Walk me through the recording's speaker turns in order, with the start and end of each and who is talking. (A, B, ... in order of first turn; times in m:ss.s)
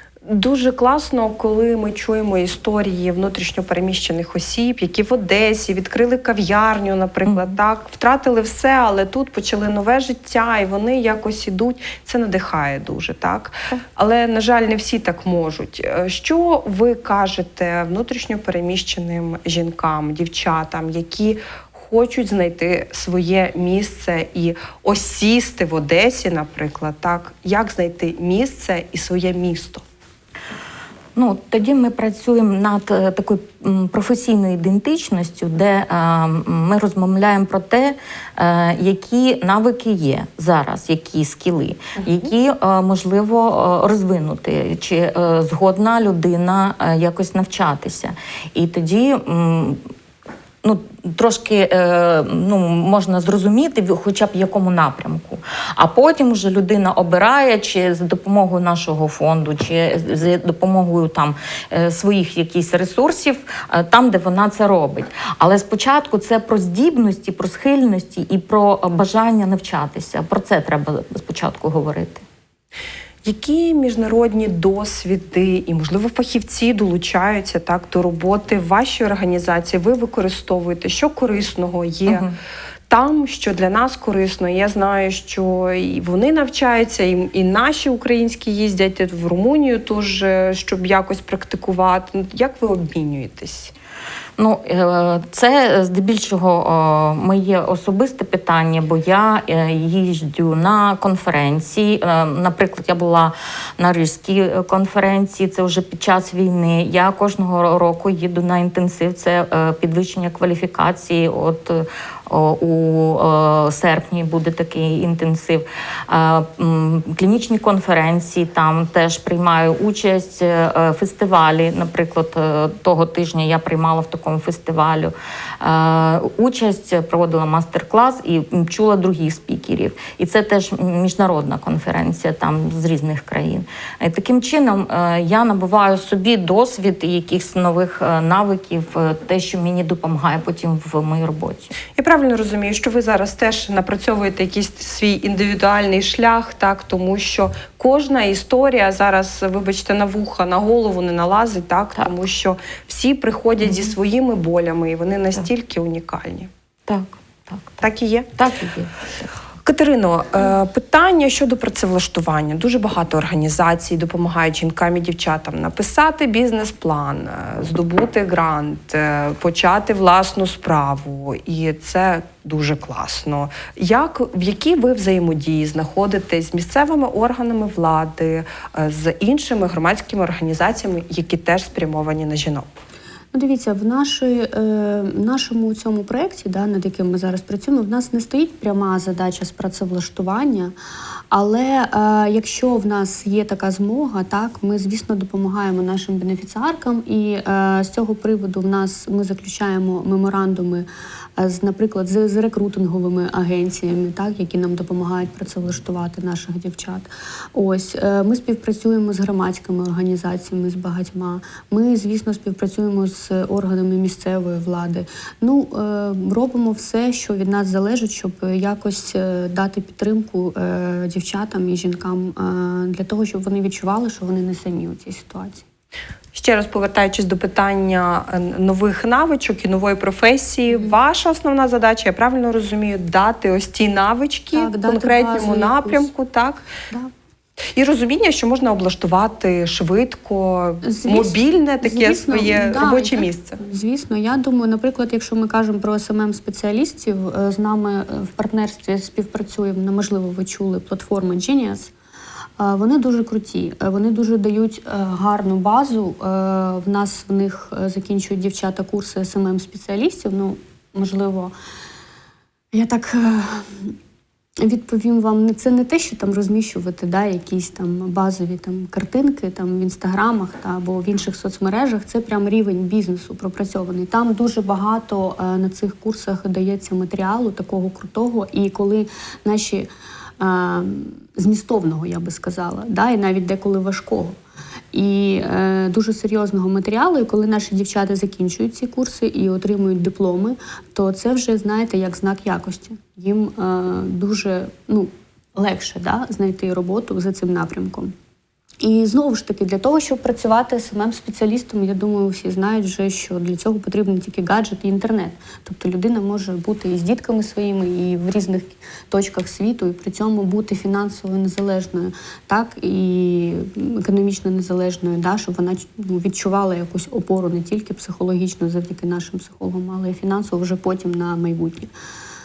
0:00.3-0:29.8 A
0:07.3-0:07.6 B
0:31.2-0:49.8 B
0:50.6-1:12.2 B
1:13.2-1:22.3 A
1:22.1-1:22.3 B
1:22.9-1:33.7 A
1:34.4-2:21.8 B
2:22.0-2:36.5 A
2:33.6-2:34.0 B
2:36.9-2:37.8 B
2:37.8-2:38.3 A
2:38.4-2:39.3 B
2:39.6-3:02.7 A
3:03.3-3:10.7 C
3:11.3-3:45.6 C
3:46.3-3:56.7 A
3:54.5-3:56.1 C
3:57.7-4:03.6 A
4:00.8-4:11.9 C
4:12.6-4:21.5 C
4:22.7-4:24.0 C
4:24.6-4:39.9 C
4:40.4-4:44.4 C
4:44.9-4:58.1 C
4:58.8-5:21.9 C